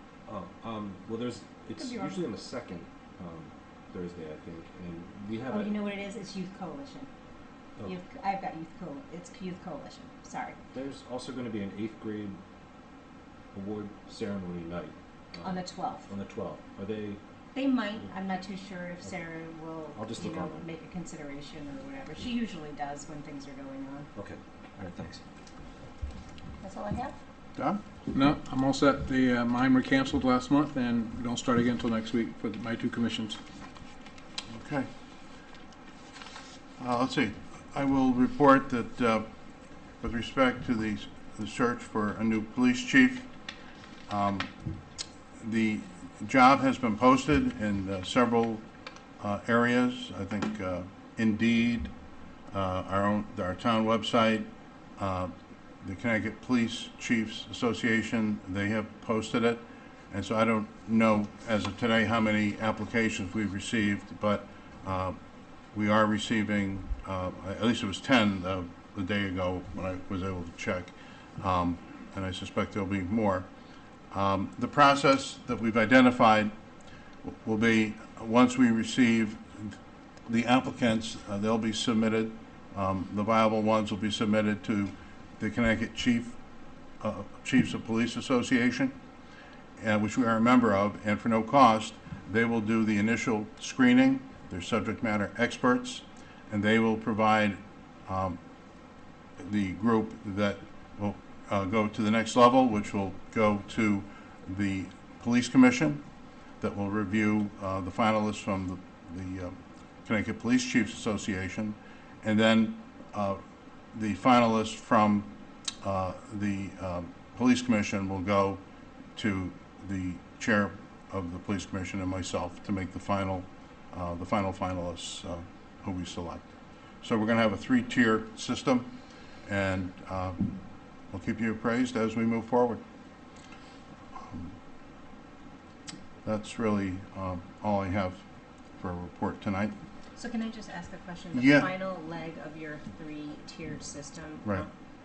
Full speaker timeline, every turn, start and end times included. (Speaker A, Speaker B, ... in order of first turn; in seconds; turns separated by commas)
Speaker A: 0.3-5.7, Speaker B: 1.8-2.3, Speaker B: 5.5-7.1, Speaker B: 7.8-10.6, Speaker A: 10.7-12.4, Speaker A: 13.5-17.2, Speaker B: 15.4-16.1, Speaker B: 17.6-24.1, Speaker A: 19.9-20.7, Speaker A: 24.1-25.2, Speaker B: 26.6-27.2, Speaker C: 27.6-27.8, Speaker D: 28.1-33.4, Speaker C: 34.5-34.9, Speaker C: 36.8-39.3, Speaker C: 40.0-43.3, Speaker C: 44.1-44.5, Speaker C: 45.4-48.6, Speaker C: 49.2-51.9, Speaker C: 52.5-65.2, Speaker C: 65.7-73.5, Speaker C: 74.1-76.5, Speaker C: 77.2-86.4, Speaker C: 87.0-89.0, Speaker C: 89.8-98.4, Speaker C: 99.4-106.0, Speaker C: 106.6-113.4, Speaker C: 113.9-118.6, Speaker C: 119.2-126.5, Speaker C: 127.0-128.9, Speaker C: 129.5-130.6, Speaker C: 131.1-132.8, Speaker C: 134.2-134.6, Speaker C: 136.2-138.2, Speaker C: 138.8-139.8, Speaker B: 140.2-144.7, Speaker C: 141.3-141.7